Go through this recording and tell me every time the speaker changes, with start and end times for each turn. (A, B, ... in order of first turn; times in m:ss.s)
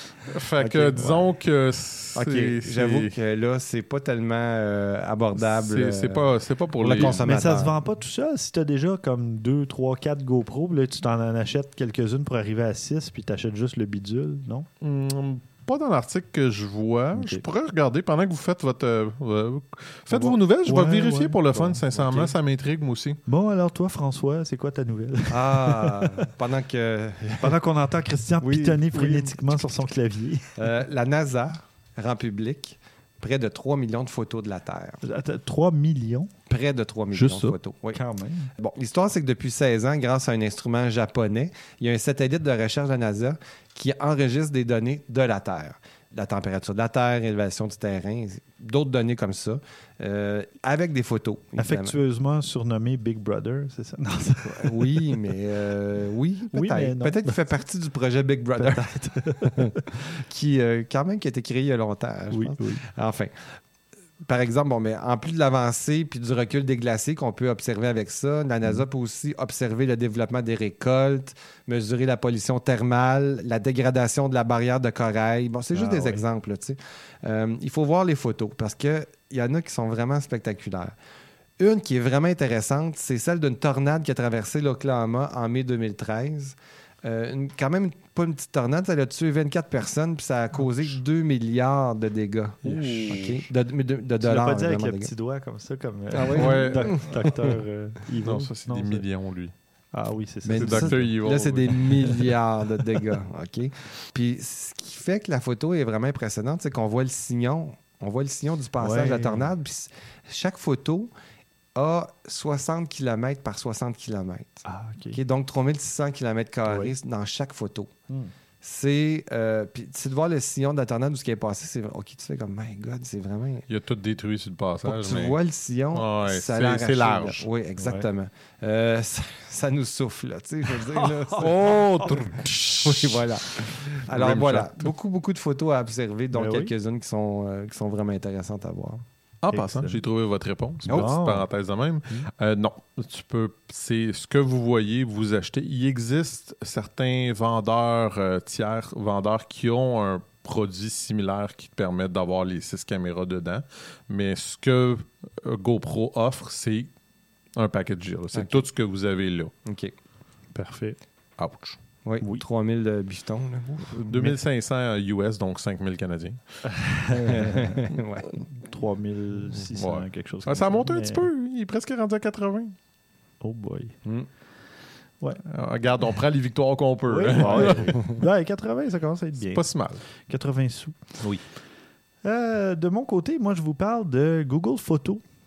0:00.3-0:03.1 A
0:00.6-0:01.1 B
0:00.9-0:01.3 C
0:02.2-0:07.7 B
0:05.4-0:07.2 A
0:06.9-0:14.7 C
0:14.8-0:23.2 A
0:17.1-0:17.4 C
0:20.1-0:21.8 C
0:21.9-0:22.3 B
0:23.2-0:26.2 C
0:25.3-0:27.5 B
0:27.4-0:30.5 C
0:28.4-0:29.3 B
0:30.6-0:35.0 B
0:35.0-0:36.3 C
0:36.5-0:38.0 B
0:37.1-0:37.6 A
0:37.9-0:38.5 C
0:38.6-0:52.0 B
0:51.6-0:55.1 C
0:54.6-0:58.8 B
0:56.5-0:57.4 C
0:58.6-0:59.8 C
0:59.4-1:03.6 B
1:02.3-1:02.8 C
1:04.2-1:20.9 B
1:15.7-1:16.2 C
1:21.6-1:35.1 B
1:32.6-1:33.4 C
1:33.0-1:33.3 A
1:34.2-1:39.0 C
1:36.1-1:37.5 B
1:36.4-1:37.1 A
1:38.2-1:39.5 A
1:39.9-1:41.4 C
1:40.4-1:51.1 B
1:40.5-1:42.2 A
1:48.8-1:49.5 C
1:51.8-1:57.9 B
1:54.6-1:55.2 C
1:56.7-1:56.9 C
1:58.6-2:03.6 B
2:03.7-2:05.4 A
2:04.8-2:12.2 B
2:05.9-2:07.5 A
2:07.8-2:08.0 C
2:10.9-2:12.4 C
2:11.4-2:14.9 A
2:12.8-2:19.0 B
2:16.3-2:16.7 C
2:19.4-2:36.9 A
2:19.5-2:20.0 C
2:20.8-2:21.5 C
2:37.6-2:39.5 A
2:38.3-2:38.6 B
2:39.6-2:39.9 B
2:40.5-2:41.0 C
2:41.4-2:41.8 A
2:42.0-2:44.0 B
2:44.0-2:46.6 A
2:46.7-2:47.7 C
2:47.3-2:48.4 B
2:48.5-2:51.3 C
2:49.6-2:52.7 A
2:53.4-2:54.0 C
2:55.4-2:58.0 A
2:57.0-3:01.3 C
2:59.4-3:00.0 A
3:02.2-3:05.2 C